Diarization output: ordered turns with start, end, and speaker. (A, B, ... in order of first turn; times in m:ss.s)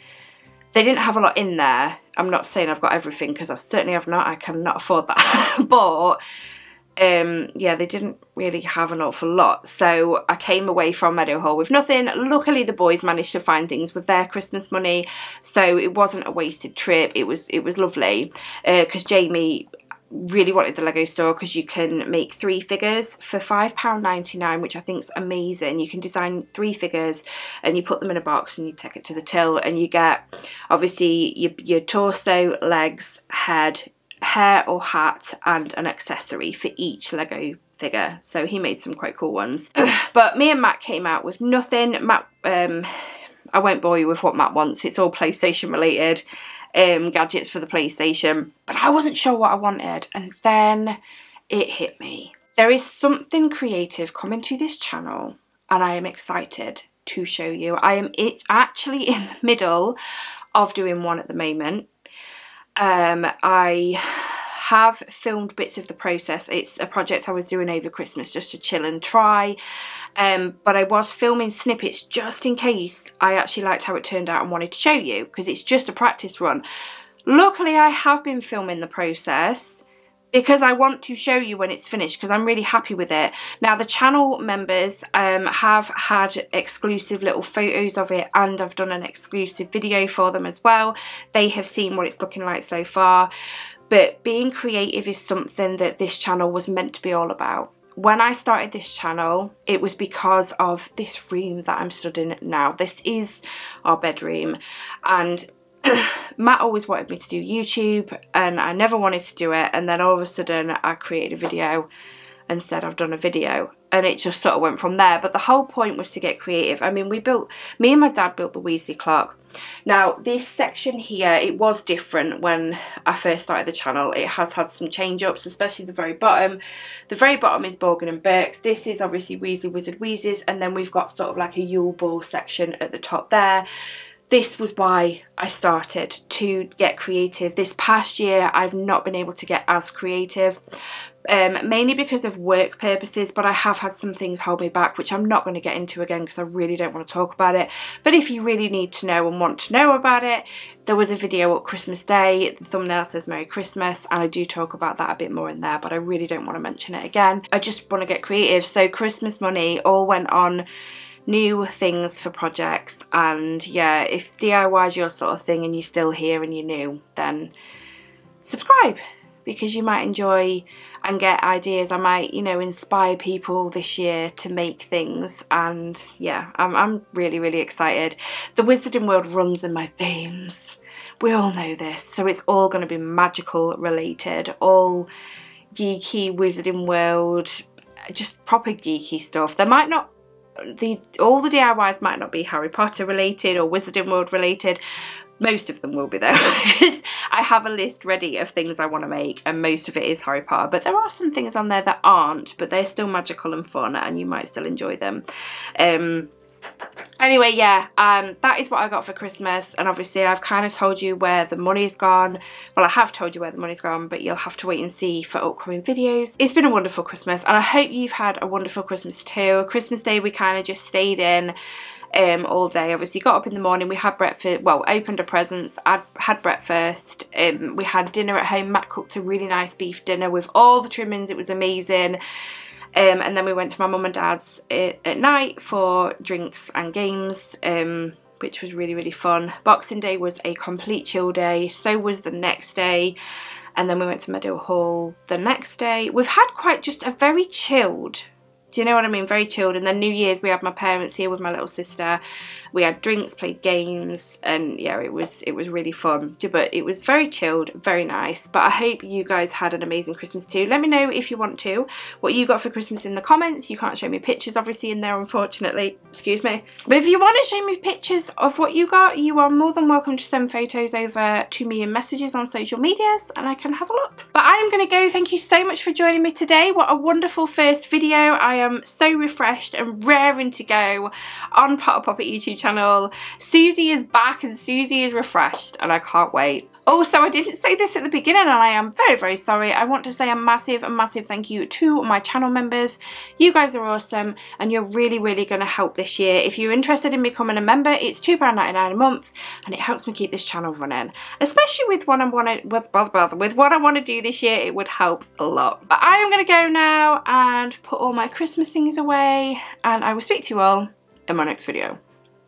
0:00.7-0:06.2 A
0:07.0-0:42.9 A
0:43.5-0:46.2 A
0:46.7-0:51.0 A
0:51.5-1:00.0 A
1:00.5-1:01.9 A
1:02.8-1:09.6 A
1:10.2-1:16.6 A
1:17.3-1:33.3 A
1:33.9-1:51.9 A
1:52.5-2:13.6 A
2:14.3-2:20.6 A
2:21.3-2:40.6 A
2:41.3-2:47.5 A
2:48.4-3:05.1 A
3:05.8-3:10.1 A
3:10.6-3:14.8 A
3:15.4-3:25.2 A
3:25.8-3:26.3 A
3:27.2-3:41.5 A
3:42.1-3:52.2 A
3:52.9-4:03.2 A
4:03.8-4:12.2 A
4:12.7-5:12.0 A